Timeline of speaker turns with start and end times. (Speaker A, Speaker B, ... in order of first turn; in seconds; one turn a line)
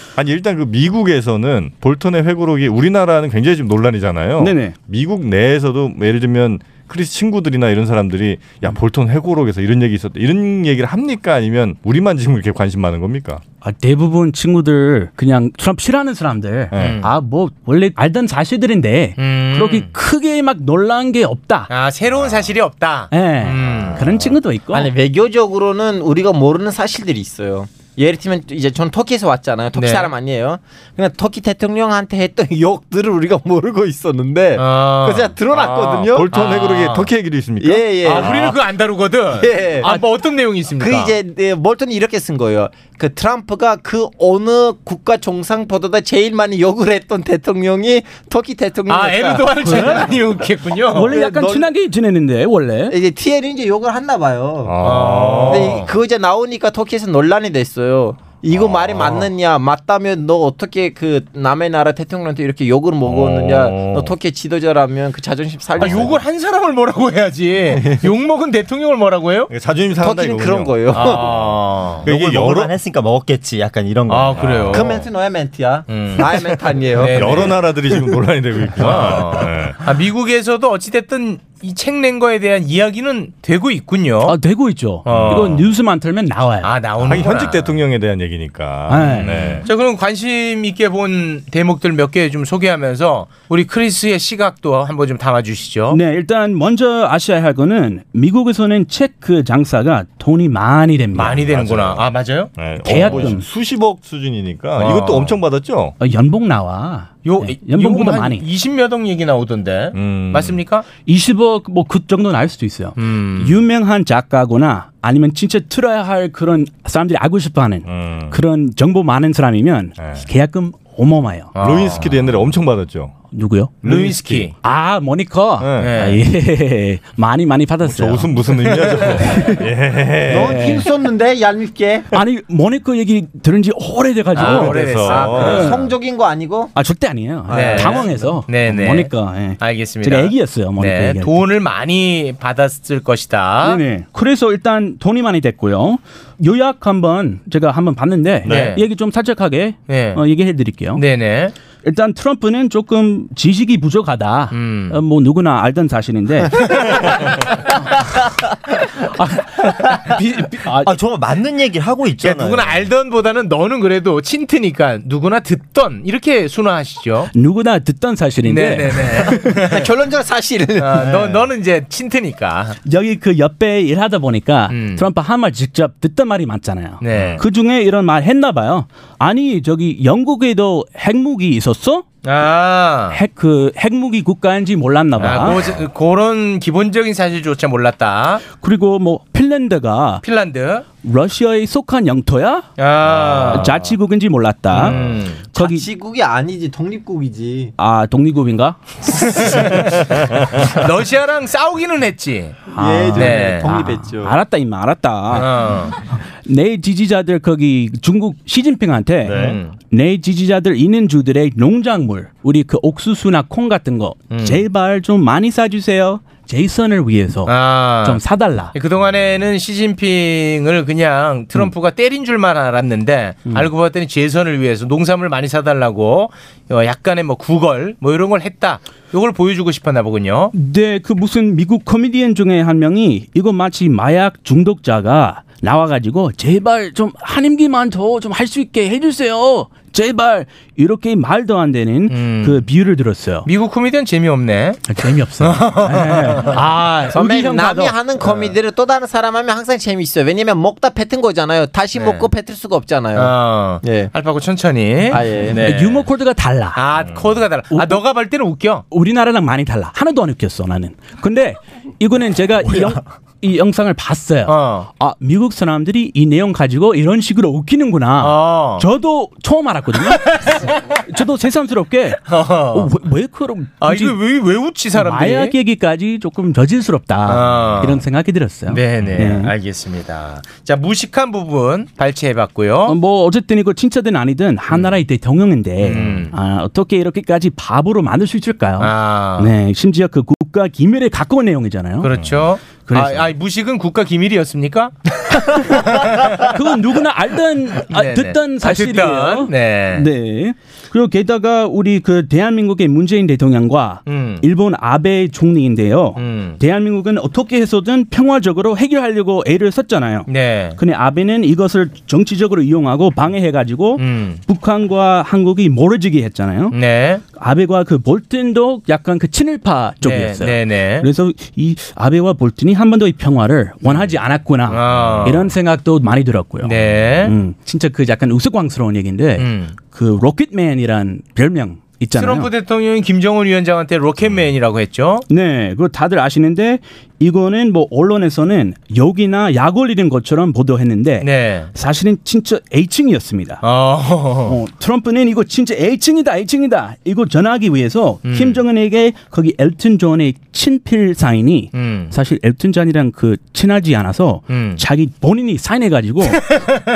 Speaker A: 0.2-13.4
Speaker B: 4.4-4.7
Speaker B: 13.6-21.7
Speaker A: 16.7-17.0
Speaker C: 16.7-17.1
Speaker C: 19.2-19.9
Speaker C: 21.7-24.1
Speaker B: 23.1-24.9
Speaker A: 23.7-24.3
Speaker D: 24.7-36.3
Speaker C: 29.7-30.1
Speaker C: 34.5-35.4
Speaker A: 35.5-38.5
Speaker C: 36.3-37.1
Speaker D: 37.6-38.5
Speaker C: 38.0-41.1
Speaker D: 39.3-40.0
Speaker D: 40.8-50.2
Speaker C: 48.9-51.1
Speaker B: 50.9-52.9
Speaker D: 51.0-51.7
Speaker D: 52.9-54.9
Speaker A: 54.6-55.8
Speaker C: 54.8-55.9
Speaker D: 55.5-66.2
Speaker A: 58.5-59.3
Speaker A: 63.0-64.1
Speaker C: 65.8-69.5
Speaker A: 65.8-66.1
Speaker A: 69.5-71.5
Speaker D: 70.0-71.5
Speaker C: 70.9-72.0
Speaker A: 72.0-72.7
Speaker E: 72.0-74.7
Speaker C: 74.1-75.0
Speaker A: 74.4-74.9
Speaker D: 74.7-77.6
Speaker C: 75.9-77.6
Speaker A: 77.0-79.9
Speaker C: 78.8-84.4
Speaker B: 84.2-86.7
Speaker C: 85.0-85.5
Speaker A: 85.1-85.7
Speaker C: 86.6-87.8
Speaker A: 87.0-89.7
Speaker B: 88.9-89.6
Speaker C: 89.0-96.0
Speaker B: 95.9-101.5
Speaker C: 101.1-103.3
Speaker A: 101.4-105.9
Speaker B: 102.8-103.5
Speaker C: 104.8-105.4
Speaker B: 106.0-108.4
Speaker C: 107.2-110.8
Speaker A: 109.9-110.6
Speaker B: 111.0-121.5
Speaker C: 113.0-113.6
Speaker A: 117.8-118.4
Speaker A: 120.0-120.2
Speaker C: 121.5-122.3
Speaker A: 121.6-123.1
Speaker B: 123.3-123.8
Speaker A: 123.8-124.5
Speaker C: 123.8-124.5
Speaker B: 124.6-128.5
Speaker A: 125.6-125.9
Speaker C: 125.8-126.2
Speaker A: 127.8-130.8
Speaker C: 128.6-129.1
Speaker B: 129.1-129.6
Speaker B: 130.2-130.8
Speaker D: 130.2-132.1
Speaker B: 132.1-135.8
Speaker C: 134.3-135.7
Speaker A: 134.4-135.8
Speaker D: 135.1-136.7
Speaker B: 136.7-141.4
Speaker D: 137.5-138.3
Speaker C: 137.5-143.8
Speaker B: 143.6-151.0
Speaker A: 148.4-148.8
Speaker C: 148.4-148.8
Speaker C: 149.9-150.2
Speaker C: 150.9-151.5
Speaker B: 151.8-156.9
Speaker C: 154.5-155.0
Speaker B: 159.1-160.9
Speaker E: 160.8-162.8
Speaker C: 162.2-167.3
Speaker B: 167.3-169.4
Speaker C: 168.4-169.9
Speaker D: 169.4-171.4
Speaker C: 170.8-172.8
Speaker B: 172.8-182.0
Speaker C: 174.7-175.0
Speaker C: 177.0-177.4
Speaker C: 182.2-183.2
Speaker B: 183.1-185.6
Speaker C: 185.2-188.4
Speaker B: 188.6-190.2
Speaker C: 190.2-190.8
Speaker B: 191.0-192.7
Speaker C: 192.8-193.8
Speaker A: 193.1-193.9
Speaker B: 193.4-194.9
Speaker C: 194.7-195.4
Speaker A: 194.8-195.2
Speaker B: 195.5-195.8
Speaker D: 195.5-197.7
Speaker B: 197.8-198.8
Speaker C: 199.1-203.7
Speaker B: 202.7-205.6
Speaker D: 202.7-204.4
Speaker C: 205.3-205.9
Speaker B: 206.4-218.7
Speaker A: 209.2-209.6
Speaker C: 209.3-209.7
Speaker C: 214.3-214.6
Speaker C: 217.4-218.2
Speaker C: 218.7-230.5
Speaker B: 230.5-243.5
Speaker C: 242.1-242.7
Speaker C: 243.4-246.6
Speaker B: 244.9-247.9
Speaker D: 247.1-254.1
Speaker C: 251.9-252.3
Speaker C: 253.1-256.1
Speaker D: 255.1-255.6
Speaker B: 255.5-256.8
Speaker C: 256.7-258.8
Speaker B: 257.7-258.0
Speaker B: 258.9-270.4
Speaker C: 264.4-264.9
Speaker C: 268.2-268.9
Speaker C: 270.1-270.7
Speaker B: 271.1-274.2
Speaker C: 272.3-272.9
Speaker C: 273.8-275.5
Speaker B: 274.9-279.5
Speaker C: 277.2-278.0
Speaker C: 278.7-282.9
Speaker B: 282.9-292.1
Speaker C: 284.7-285.0
Speaker C: 285.8-286.3
Speaker A: 285.9-286.3
Speaker C: 288.8-289.5
Speaker C: 292.0-296.5
Speaker B: 292.8-293.3
Speaker B: 296.4-316.8
Speaker C: 297.9-300.1
Speaker C: 304.1-304.4
Speaker C: 306.1-306.6
Speaker C: 310.3-310.8
Speaker C: 314.0-314.4
Speaker C: 316.7-317.2
Speaker B: 317.3-332.5
Speaker C: 320.0-321.1
Speaker C: 324.7-325.4
Speaker A: 325.0-325.3
Speaker C: 326.6-327.3
Speaker C: 329.4-329.8
Speaker C: 332.1-335.2
Speaker B: 335.3-343.6
Speaker C: 341.2-341.7
Speaker C: 343.6-344.6
Speaker B: 344.4-356.4
Speaker C: 348.2-348.6
Speaker C: 351.7-352.1
Speaker C: 354.5-354.8
Speaker C: 356.5-356.8